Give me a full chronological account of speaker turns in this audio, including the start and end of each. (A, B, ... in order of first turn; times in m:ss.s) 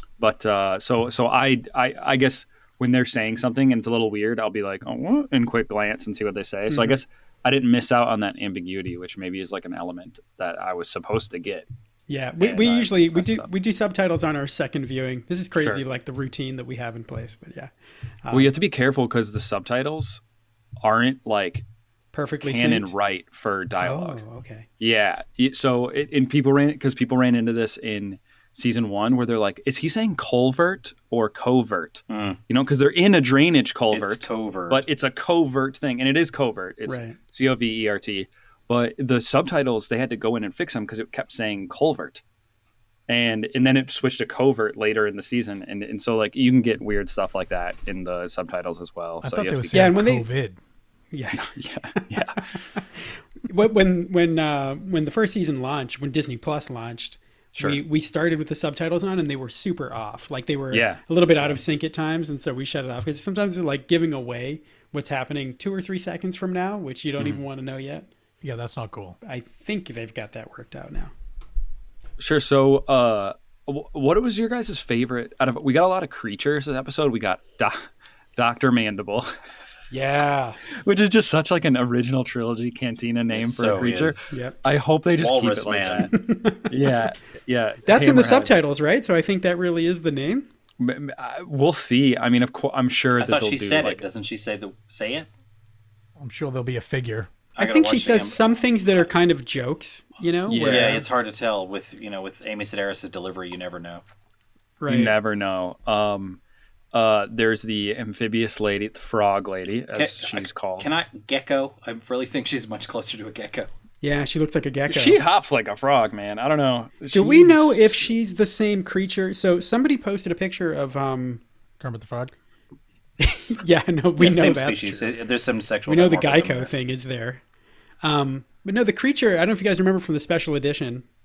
0:00.2-0:11.7 A
0:06.7-0:07.0 B
0:12.1-0:17.7 B
0:12.4-0:13.5 A
0:15.6-0:15.8 A
0:18.2-0:18.5 B
0:18.3-0:20.2 A
0:20.8-0:21.6 A
0:22.1-0:22.9 B
0:22.4-0:24.2 A
0:23.8-0:24.7 B
0:24.8-0:42.2 A
0:32.1-0:32.4 C
0:33.9-0:34.8 C
0:36.9-0:37.2 B
0:43.1-0:50.0 A
0:49.2-0:50.6 D
0:49.7-0:50.3 B
0:51.1-0:52.1 B
0:51.4-0:52.6 A
0:53.4-1:08.1 B
0:57.6-0:57.8 A
1:00.7-1:01.0 A
1:08.4-1:09.2 D
1:09.2-1:11.1 B
1:12.2-1:19.3 A
1:19.9-1:20.6 B
1:20.7-1:26.1 A
1:23.3-1:24.2 C
1:25.2-1:26.1 C
1:26.1-1:26.7 B
1:26.7-1:28.5 A
1:27.9-1:30.5 B
1:30.8-1:34.0 A
1:33.2-1:35.3 C
1:36.2-1:37.3 D
1:37.6-1:38.4 C
1:37.6-1:41.0 B
1:40.5-1:41.0 A
1:40.6-1:44.0 C
1:44.8-1:45.1 B
1:44.9-1:46.4 A
1:46.9-1:50.9 A
1:50.0-1:53.7 C
1:54.0-1:55.2 B
1:54.9-1:57.9 A
1:57.1-2:01.4 B
2:01.8-2:02.3 D
2:03.2-2:05.2 B
2:04.2-2:06.7 C
2:05.9-2:07.4 B
2:08.0-2:11.1 B